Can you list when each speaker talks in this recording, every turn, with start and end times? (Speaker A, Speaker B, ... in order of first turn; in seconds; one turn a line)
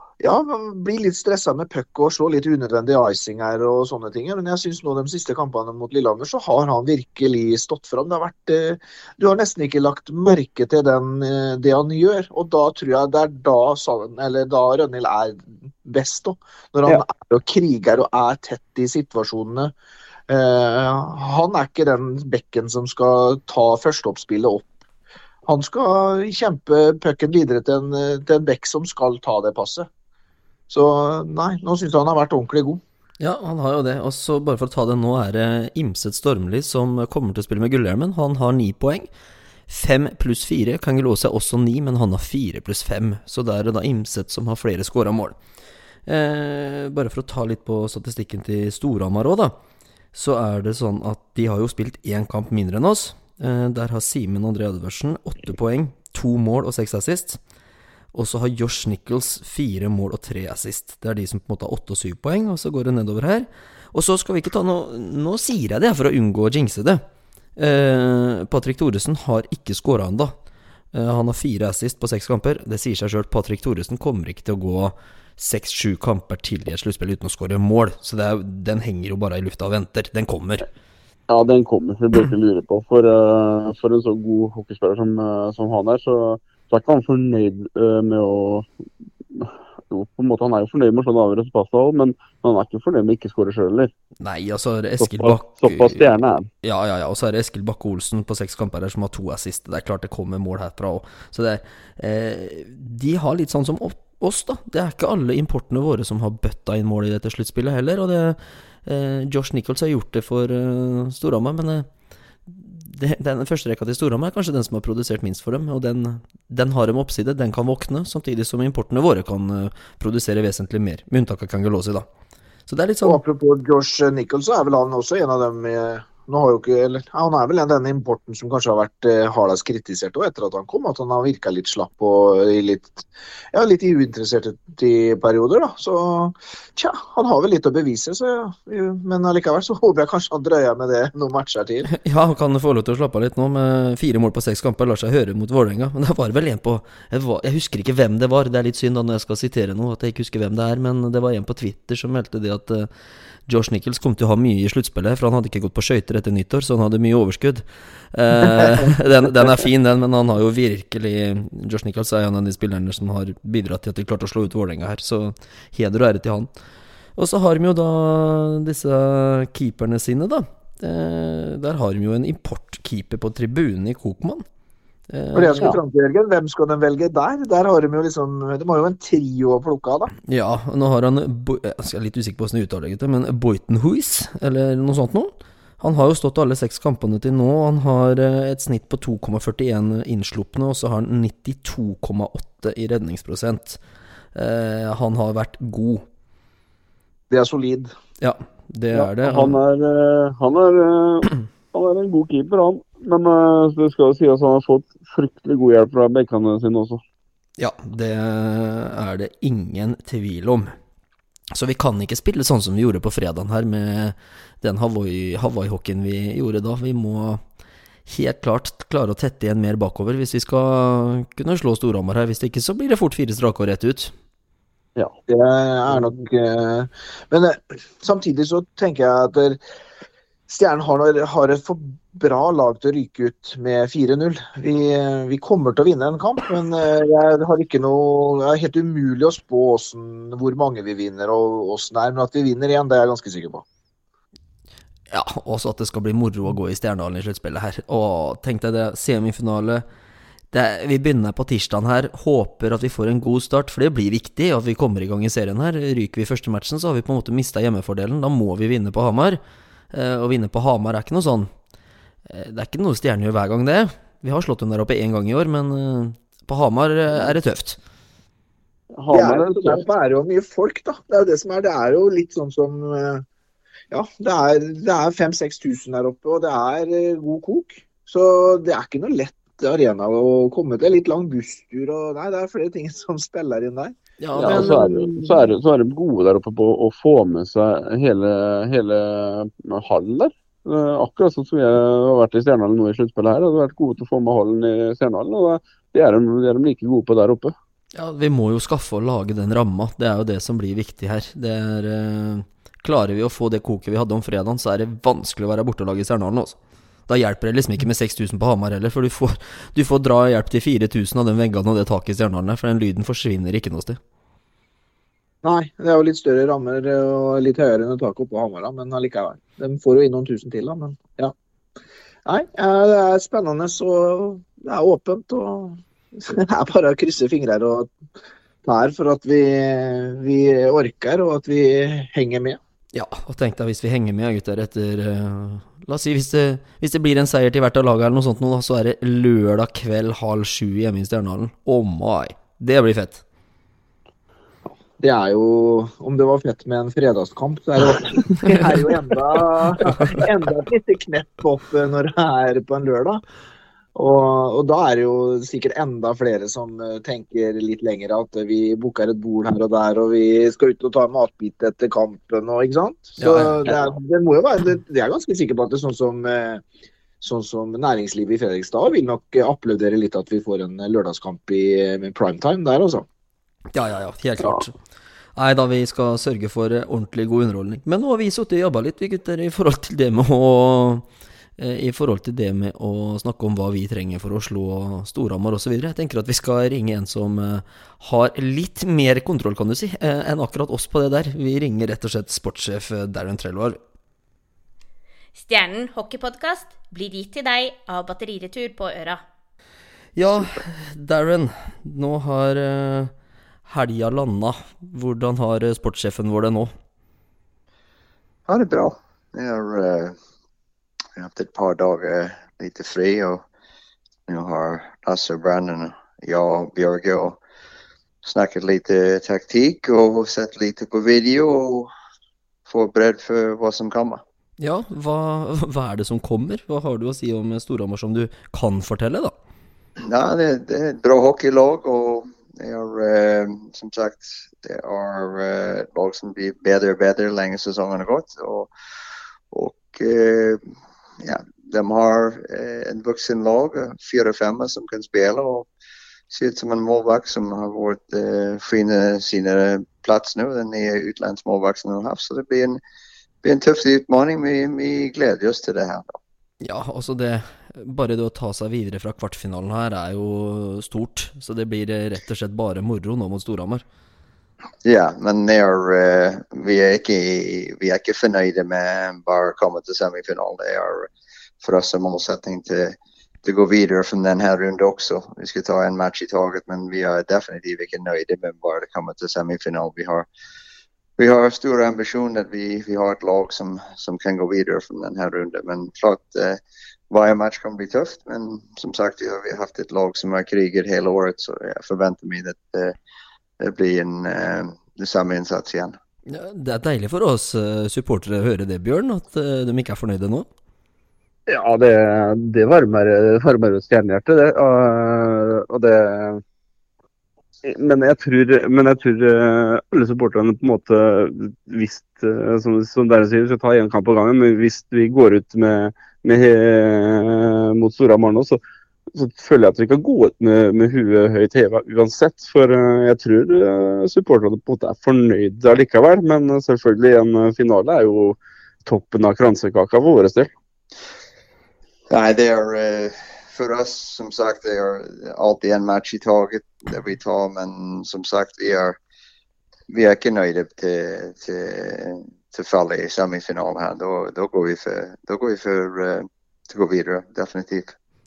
Speaker A: 0.2-19.7
Speaker A: 20.3-24.7
Speaker A: 25.5-29.9
Speaker A: 30.7-32.8
Speaker B: 33.2-39.1
Speaker B: 39.7-45.4
Speaker B: 46.0-49.5
Speaker B: 50.1-57.4
Speaker B: 58.1-67.0
Speaker B: 67.6-70.3
Speaker B: 70.9-80.7
Speaker C: 81.3-88.7
Speaker C: 89.3-93.9
Speaker B: 94.2-96.1
Speaker C: 95.0-96.5
Speaker B: 96.6-111.9
Speaker B: 112.5-122.1
Speaker B: 122.7-123.2
Speaker A: 123.0-141.9
Speaker B: 141.9-152.9
Speaker B: 153.5-166.5
Speaker B: 167.2-174.4
Speaker B: 175.1-175.7
Speaker A: 175.3-180.1
Speaker B: 180.2-193.8
Speaker B: 194.3-196.0
Speaker A: 197.3-197.9
Speaker B: 198.2-199.6
Speaker C: 198.9-207.0
Speaker B: 207.6-210.7
Speaker B: 211.5-217.4
Speaker B: 218.1-224.1
Speaker A: 225.3-229.6
Speaker A: 230.5-243.6
Speaker B: 245.1-249.8
Speaker B: 250.5-259.4
Speaker B: 259.9-261.5
Speaker B: 262.3-267.8
Speaker C: 268.9-269.8
Speaker A: 269.1-273.2
Speaker A: 273.9-285.4
Speaker B: 284.2-284.8
Speaker C: 284.4-297.5
Speaker B: 297.9-306.6
Speaker B: 307.1-314.0
Speaker A: 315.4-321.3
Speaker A: 322.2-327.9
Speaker A: 328.6-332.6
Speaker B: 332.9-343.2
Speaker A: 345.0-353.2
Speaker A: 353.9-366.6
Speaker B: 363.2-363.7
Speaker A: 367.2-373.1
Speaker B: 373.7-374.7
Speaker B: 375.4-381.1
Speaker B: 381.6-393.8
Speaker D: 395.3-399.2
Speaker B: 400.1-403.1
Speaker E: 400.2-400.6
Speaker B: 403.6-406.7
Speaker E: 408.5-410.1
Speaker E: 411.2-413.4
Speaker E: 414.3-417.4
Speaker E: 418.2-421.9
Speaker E: 422.7-424.2
Speaker B: 424.6-429.3
Speaker E: 430.0-438.7
Speaker E: 439.5-440.6
Speaker E: 441.2-445.7
Speaker E: 446.3-452.8
Speaker E: 453.4-456.2
Speaker B: 456.6-463.8
Speaker E: 464.8-471.1
Speaker E: 471.6-480.3
Speaker E: 481.2-492.9
Speaker E: 493.6-495.9
Speaker B: 496.2-500.5
Speaker C: 501.5-506.4
Speaker C: 507.6-518.6
Speaker C: 519.1-530.5
Speaker E: 532.1-539.0
Speaker E: 539.9-547.9